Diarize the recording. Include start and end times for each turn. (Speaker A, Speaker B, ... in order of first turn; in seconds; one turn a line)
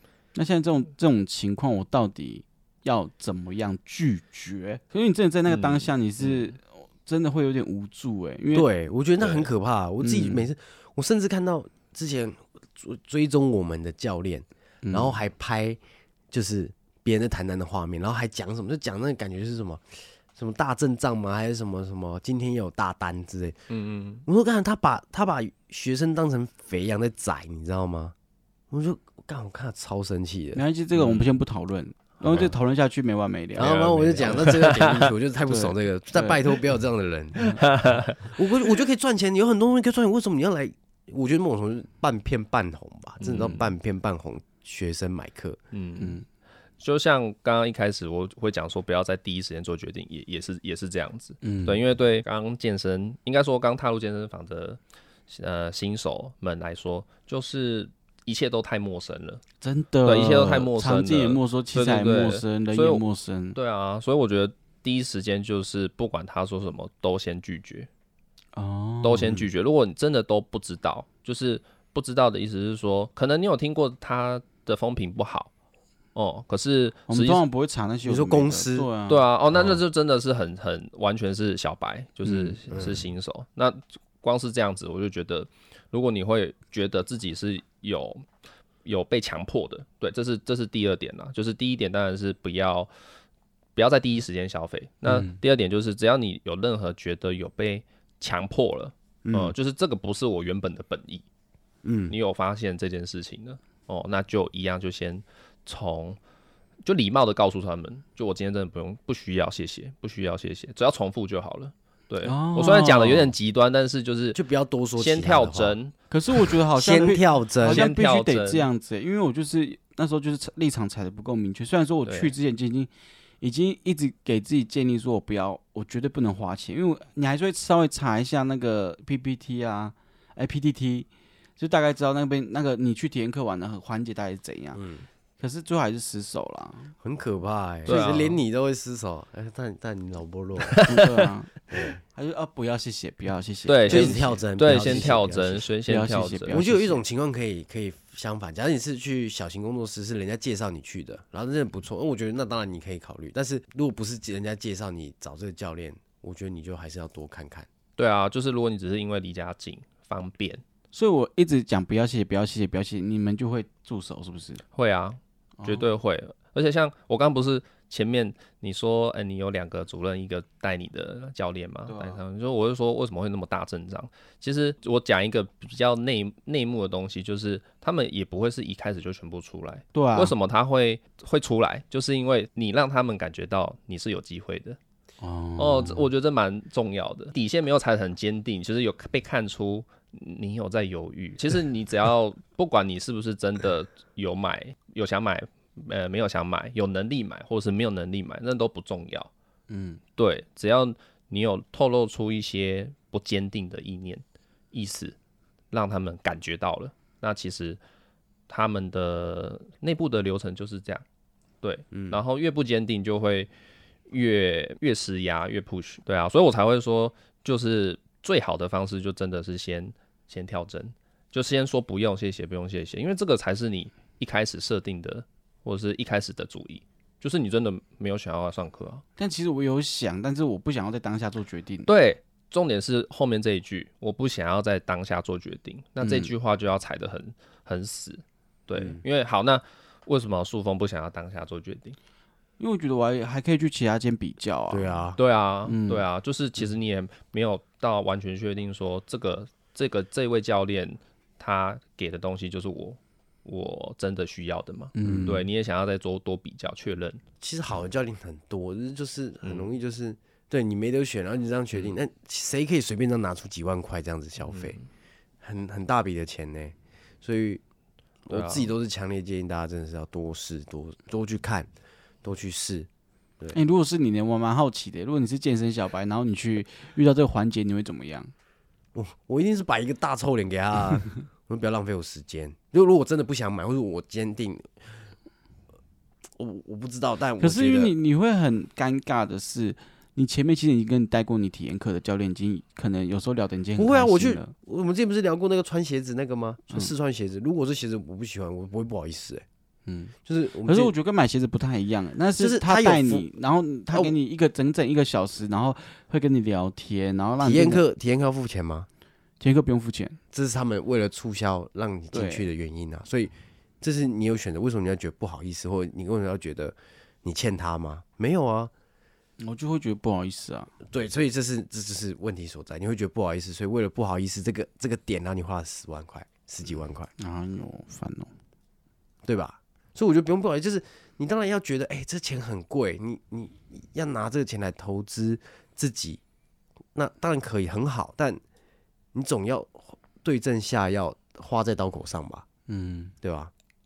Speaker A: 0.3-8.7
Speaker B: 5.5-6.4
Speaker C: 8.5-15.8
Speaker B: 9.2-9.5
Speaker A: 10.0-10.5
Speaker A: 14.8-15.2
Speaker C: 16.3-23.6
Speaker B: 23.7-24.2
Speaker C: 24.2-28.1
Speaker C: 28.7-30.6
Speaker A: 30.5-33.8
Speaker B: 31.0-31.2
Speaker C: 32.2-32.5
Speaker C: 33.6-45.6
Speaker B: 33.6-35.1
Speaker A: 35.5-36.4
Speaker B: 37.6-38.3
Speaker B: 43.2-43.7
Speaker B: 45.7-46.2
Speaker A: 46.0-46.2
Speaker B: 46.8-59.4
Speaker A: 51.4-51.8
Speaker A: 59.6-63.6
Speaker B: 60.0-67.9
Speaker A: 68.5-69.3
Speaker B: 69.0-75.5
Speaker B: 76.1-77.4
Speaker A: 77.1-79.2
Speaker C: 78.0-78.9
Speaker B: 79.1-88.2
Speaker C: 79.5-79.8
Speaker C: 82.7-83.1
Speaker B: 88.8-92.9
Speaker B: 93.8-101.2
Speaker A: 95.0-95.4
Speaker C: 99.2-99.5
Speaker C: 101.8-102.2
Speaker B: 102.1-106.2
Speaker B: 106.8-114.4
Speaker A: 112.2-113.3
Speaker C: 114.3-115.8
Speaker B: 115.0-115.9
Speaker A: 116.1-134.8
Speaker C: 116.7-117.9
Speaker B: 117.6-118.7
Speaker B: 122.0-122.3
Speaker C: 134.7-135.1
Speaker A: 135.4-136.9
Speaker C: 137.0-140.8
Speaker B: 137.8-138.4
Speaker B: 140.7-141.1
Speaker A: 140.8-141.6
Speaker C: 141.7-142.0
Speaker A: 142.1-145.2
Speaker B: 143.7-146.6
Speaker C: 143.9-145.7
Speaker A: 145.8-147.0
Speaker C: 146.5-157.7
Speaker B: 158.0-160.6
Speaker A: 160.9-164.6
Speaker B: 164.7-184.8
Speaker A: 165.6-165.8
Speaker A: 171.9-172.2
Speaker A: 179.9-180.3
Speaker A: 185.2-186.0
Speaker B: 185.6-199.3
Speaker A: 199.7-200.0
Speaker B: 200.2-205.2
Speaker B: 205.7-207.8
Speaker B: 208.5-211.0
Speaker B: 211.6-213.5
Speaker C: 211.9-212.2
Speaker B: 214.1-229.0
Speaker A: 229.2-231.9
Speaker B: 231.9-242.0
Speaker A: 236.0-236.3
Speaker C: 238.7-239.0
Speaker A: 242.6-245.1
Speaker C: 244.7-245.2
Speaker B: 245.2-257.2
Speaker A: 245.7-246.0
Speaker A: 254.9-255.4
Speaker C: 255.0-255.3
Speaker C: 257.4-264.8
Speaker B: 259.4-259.7
Speaker B: 264.4-264.8
Speaker C: 265.4-267.6
Speaker C: 268.2-271.7
Speaker B: 268.3-268.7
Speaker C: 272.2-272.9
Speaker A: 273.5-278.3
Speaker C: 278.9-284.9
Speaker C: 286.4-287.9
Speaker A: 287.4-294.5
Speaker C: 293.8-299.4
Speaker A: 299.9-307.8
Speaker C: 300.2-300.9
Speaker C: 302.4-303.3
Speaker C: 303.9-304.2
Speaker C: 307.4-308.9
Speaker A: 309.4-310.2
Speaker C: 310.3-318.7
Speaker A: 312.1-312.5
Speaker A: 319.4-320.7
Speaker C: 320.9-327.1
Speaker A: 327.2-328.3
Speaker C: 329.2-336.2
Speaker C: 336.9-338.4
Speaker C: 339.1-342.4
Speaker A: 342.7-343.1
Speaker C: 343.2-343.5